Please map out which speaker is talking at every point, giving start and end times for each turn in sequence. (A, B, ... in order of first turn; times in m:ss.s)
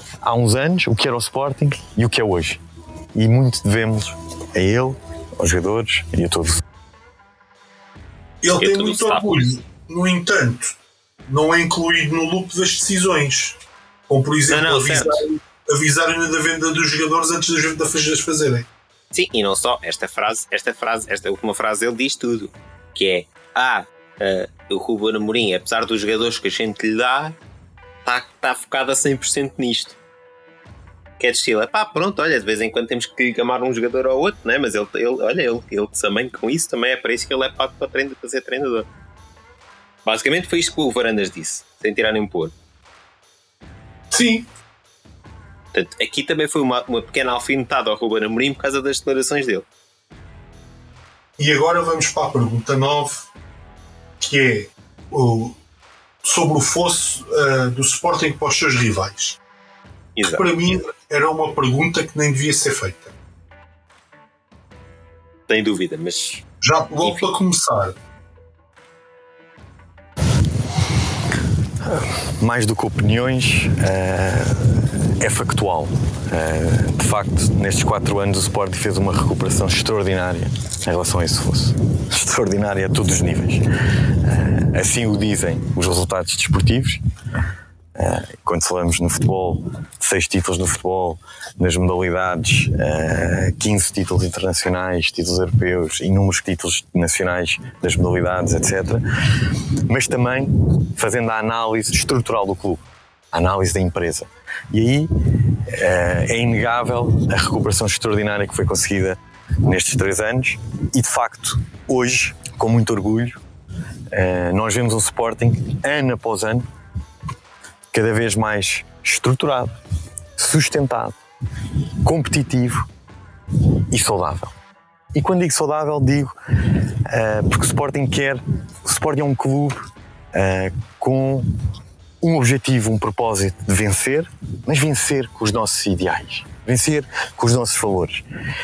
0:00.2-0:02.6 A
0:03.1-0:06.6 A
0:08.4-0:10.7 B
0:08.6-0:09.4 C
0:11.3-0:18.7 B
0:14.5-0:15.2 C
0:19.1-0:27.4 C
0:28.0-0:30.0 C
0:31.2-0:38.9 C
0:40.0-0:42.5 C
0:44.1-0:44.5 B
0:45.7-0:49.7 C
0:51.4-0:53.3 B
0:54.2-0:55.6 B
0:56.2-0:59.4 B
1:00.2-1:00.4 C
1:00.3-1:03.1 B
1:05.5-1:06.4 C
1:06.6-1:08.0 B
1:07.0-1:07.3 C
1:11.8-1:27.0 A
1:27.9-1:45.1 A
1:45.7-1:53.4 A
1:54.1-1:56.6 A
1:57.9-1:59.7 A
2:00.4-2:01.2 A
2:02.0-2:02.9 A
2:03.9-2:04.5 A
2:05.1-2:11.4 A
2:12.2-2:18.2 A